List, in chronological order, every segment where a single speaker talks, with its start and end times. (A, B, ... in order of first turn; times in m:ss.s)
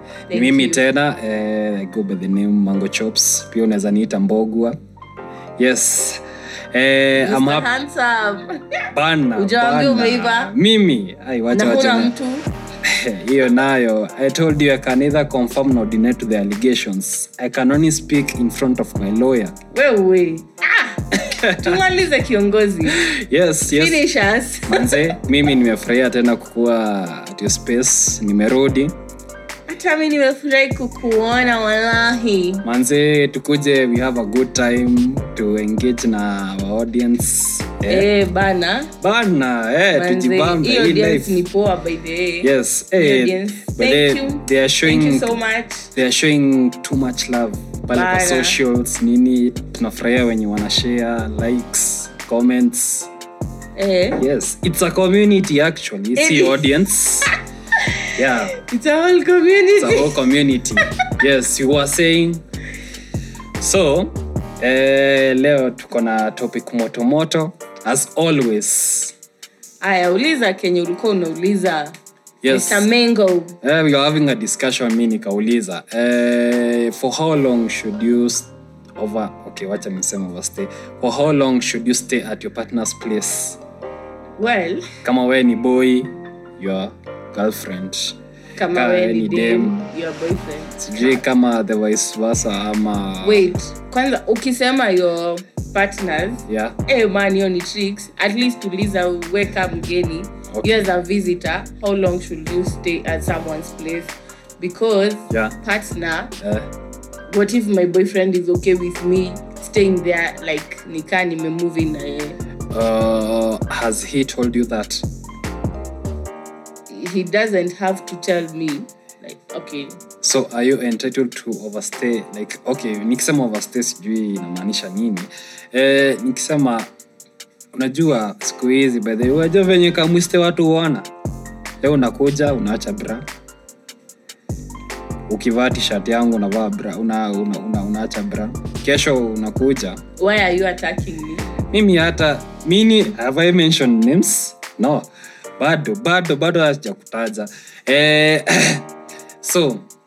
0:00.3-0:00.8 A
0:00.3-0:04.8 B
0:05.6-0:07.7 B
0:07.1-0:10.5 A
0:08.9-0:12.1 B
0:11.5-0:12.5 A
0:12.8-0:19.6 B
0:19.7-0:23.0 A
0:21.3-0:21.8 B
0:22.9-0:24.0 B
0:23.7-0:25.2 A
0:24.7-0:28.9 B
0:29.7-0:32.6 A
0:32.6-0:38.1 B
0:37.9-0:38.9 A
0:39.0-0:41.4 B
0:39.9-0:45.9 A
0:42.4-0:45.4 B
0:45.9-0:53.1 B
0:47.9-0:48.6 A
0:53.8-0:54.2 A
0:54.2-0:57.3 B
0:56.2-0:56.6 A
0:57.7-1:00.2 A
0:58.1-0:58.5 B
0:59.8-1:02.4 B
1:03.6-1:09.1 B
1:09.8-1:11.9 A
1:12.4-1:12.9 B
1:12.5-1:13.6 A
1:13.6-1:23.6 B
1:24.4-1:24.9 A
1:25.0-1:28.2 B
1:28.6-1:31.2 A
1:28.7-1:29.7 B
1:30.8-1:33.5 B
1:33.2-1:46.3 A
1:36.5-1:36.8 B
1:40.5-1:40.8 B
1:45.3-1:45.6 B
1:46.4-1:46.7 B
1:47.3-1:52.4 A
1:52.7-1:55.0 B
1:56.9-2:00.0 A
2:00.2-2:06.9 B
2:07.7-2:11.1 B
2:11.8-2:13.2 B
2:15.3-2:20.0 B
2:20.2-2:21.4 A
2:21.7-2:25.0 B
2:25.6-2:28.8 B
2:29.4-2:29.8 B